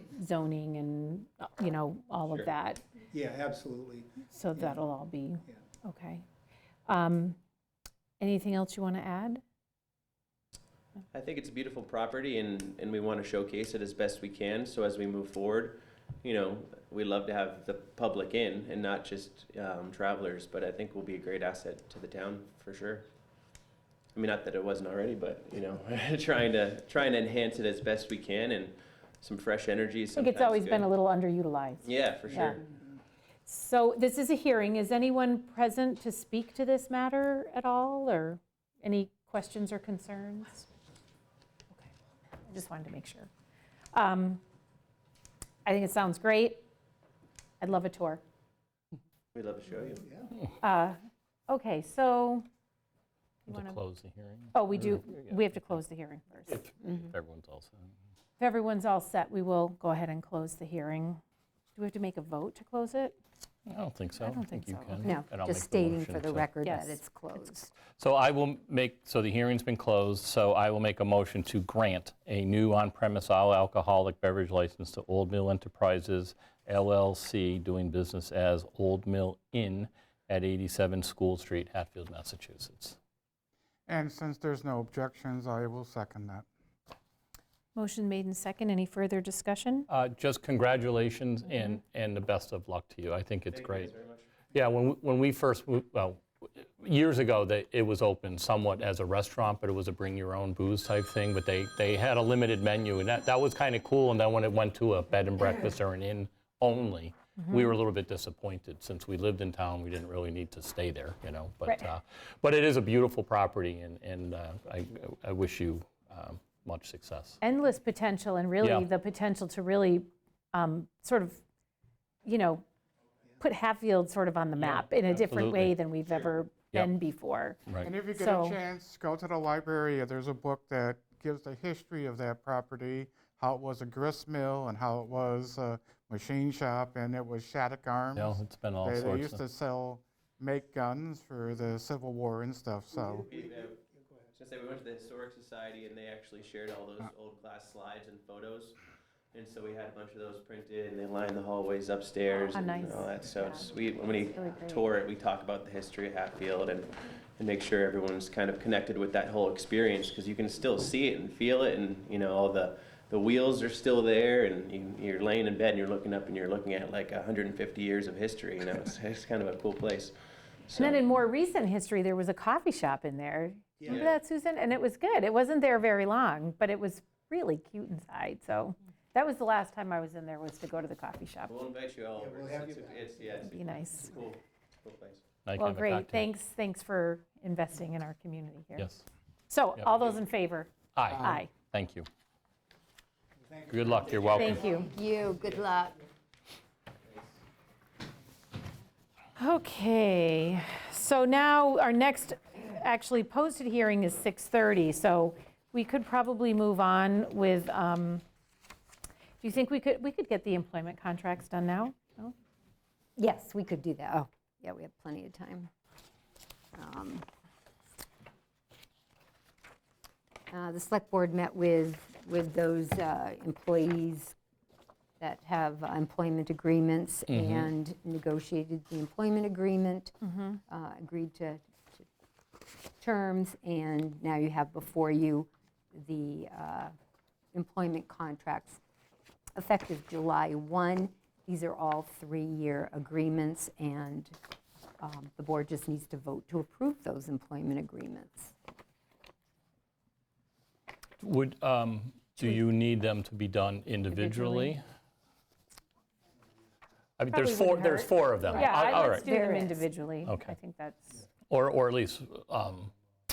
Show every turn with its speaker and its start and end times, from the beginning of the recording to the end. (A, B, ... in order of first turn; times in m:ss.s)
0:00.1-0:02.8 A
0:03.1-0:04.8 B
0:04.3-0:06.2 A
0:06.9-0:07.4 A
0:08.2-0:09.4 A
0:11.1-0:23.0 C
0:24.2-0:30.9 C
0:30.2-0:32.6 A
0:31.8-0:32.6 C
0:33.5-0:40.6 A
0:42.4-0:43.3 A
0:43.9-0:44.4 A
0:45.7-0:46.7 A
0:47.6-0:48.2 A
0:49.3-0:50.2 C
0:50.6-0:51.0 A
0:51.5-0:52.4 A
0:53.4-0:55.8 D
0:53.5-0:53.8 A
0:54.5-0:56.7 A
0:56.5-0:57.9 D
0:58.4-1:01.2 A
1:01.8-1:03.1 A
1:03.7-1:06.5 D
1:04.1-1:05.2 A
1:05.0-1:07.7 E
1:06.6-1:07.0 A
1:07.9-1:23.0 D
1:23.9-1:26.4 F
1:27.8-1:29.9 A
1:29.9-1:34.0 D
1:33.5-1:34.2 C
1:34.5-1:57.4 D
1:47.4-1:47.8 A
1:57.4-2:01.4 A
1:58.6-1:58.9 D
2:02.2-2:02.6 A
2:03.4-2:08.6 A
2:05.2-2:05.7 D
2:07.8-2:23.3 F
2:18.1-2:19.4 D
2:23.3-2:23.8 C
2:24.4-2:28.8 C
2:29.3-2:50.1 C
2:32.5-2:34.9 A
2:50.7-2:51.0 C
2:50.8-3:01.5 A
2:53.9-2:54.1 C
3:01.5-3:05.2 C
3:02.2-3:03.3 B
3:03.5-3:04.1 A
3:05.4-3:06.3 D
3:05.6-3:11.5 A
3:08.8-3:09.0 D
3:10.9-3:12.1 D
3:13.5-3:15.1 B
3:13.7-3:14.6 D
3:14.3-3:14.9 A
3:14.8-3:16.0 E
3:19.4-3:28.2 A
3:29.4-3:32.3 A
3:33.2-3:35.7 E
3:36.8-3:37.2 E
3:40.5-3:44.3 E
3:45.2-3:50.1 E
3:47.3-3:47.7 D
3:50.2-3:50.6 A
3:50.6-3:52.1 E
3:53.0-3:56.9 E
3:57.5-3:58.8 E
3:59.6-4:04.4 E
4:05.0-4:08.5 E
4:11.2-4:14.8 D
4:14.1-4:14.8 A
4:17.2-4:19.3 D
4:17.3-4:21.2 A
4:18.4-4:19.8 E
4:20.2-4:20.5 D
4:21.5-4:22.9 D